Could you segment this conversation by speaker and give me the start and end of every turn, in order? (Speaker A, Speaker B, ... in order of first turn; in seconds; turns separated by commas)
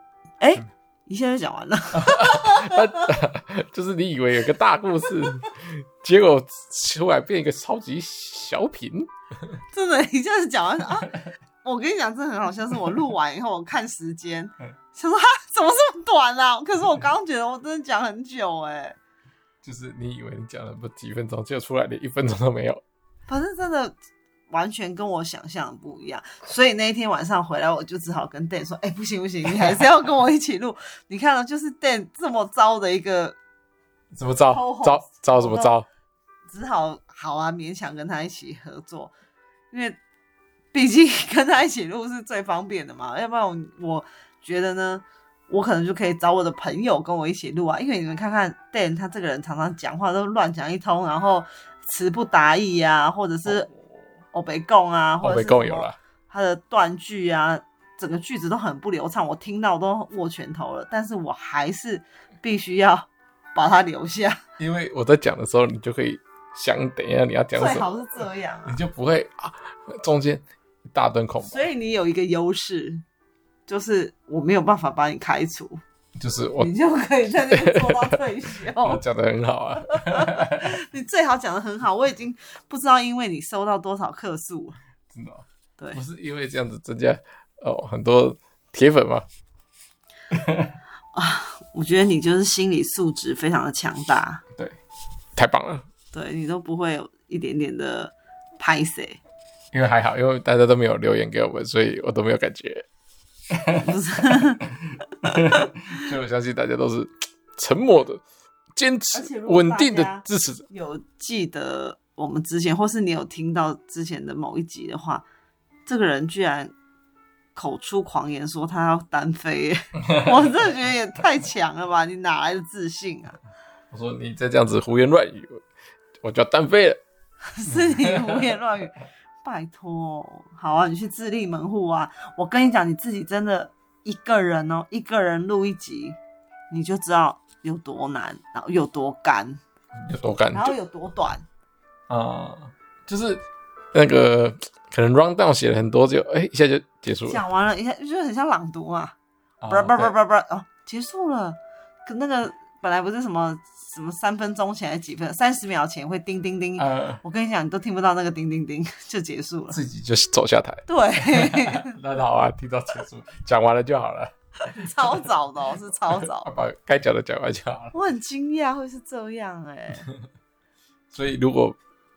Speaker A: 0.4-3.1, Speaker B: 1.9-9.6, Speaker A: 9.7-18.9, Speaker B: 19.6-22.8, Speaker A: 23.3-23.9, Speaker A: 24.5-33.4, Speaker B: 34.1-35.9, Speaker A: 34.5-35.7, Speaker A: 36.5-39.1, Speaker A: 39.7-40.0, Speaker A: 40.7-53.7, Speaker B: 53.5-54.0, Speaker A: 54.3-64.4, Speaker B: 55.2-56.0, Speaker B: 64.6-67.9, Speaker A: 67.5-68.8, Speaker B: 68.7-71.6, Speaker A: 71.4-73.0, Speaker A: 73.7-75.8, Speaker B: 76.2-76.7, Speaker A: 76.6-79.0, Speaker B: 77.5-80.8, Speaker A: 79.8-84.8, Speaker B: 85.1-89.2, Speaker B: 90.3-90.7, Speaker A: 91.1-94.4, Speaker B: 95.3-95.8, Speaker A: 96.1-99.2, Speaker B: 99.7-102.8, Speaker B: 103.5-103.9, Speaker A: 103.8-104.6, Speaker B: 104.6-108.2, Speaker A: 105.2-105.7, Speaker B: 108.8-110.6, Speaker A: 109.1-115.2, Speaker A: 115.8-116.7, Speaker A: 117.5-123.4, Speaker B: 120.1-120.4, Speaker B: 123.9-125.6, Speaker B: 126.2-127.0, Speaker A: 127.5-136.2, Speaker B: 127.7-128.5, Speaker A: 136.7-139.6, Speaker B: 139.9-140.7, Speaker A: 140.5-141.4, Speaker B: 142.1-147.4, Speaker A: 147.2-149.1, Speaker B: 149.6-150.1, Speaker A: 149.7-159.8, Speaker B: 156.8-157.2, Speaker B: 159.7-165.3, Speaker A: 160.9-161.9, Speaker A: 164.6-166.5, Speaker B: 166.2-167.9, Speaker A: 167.9-170.1, Speaker B: 171.1-171.8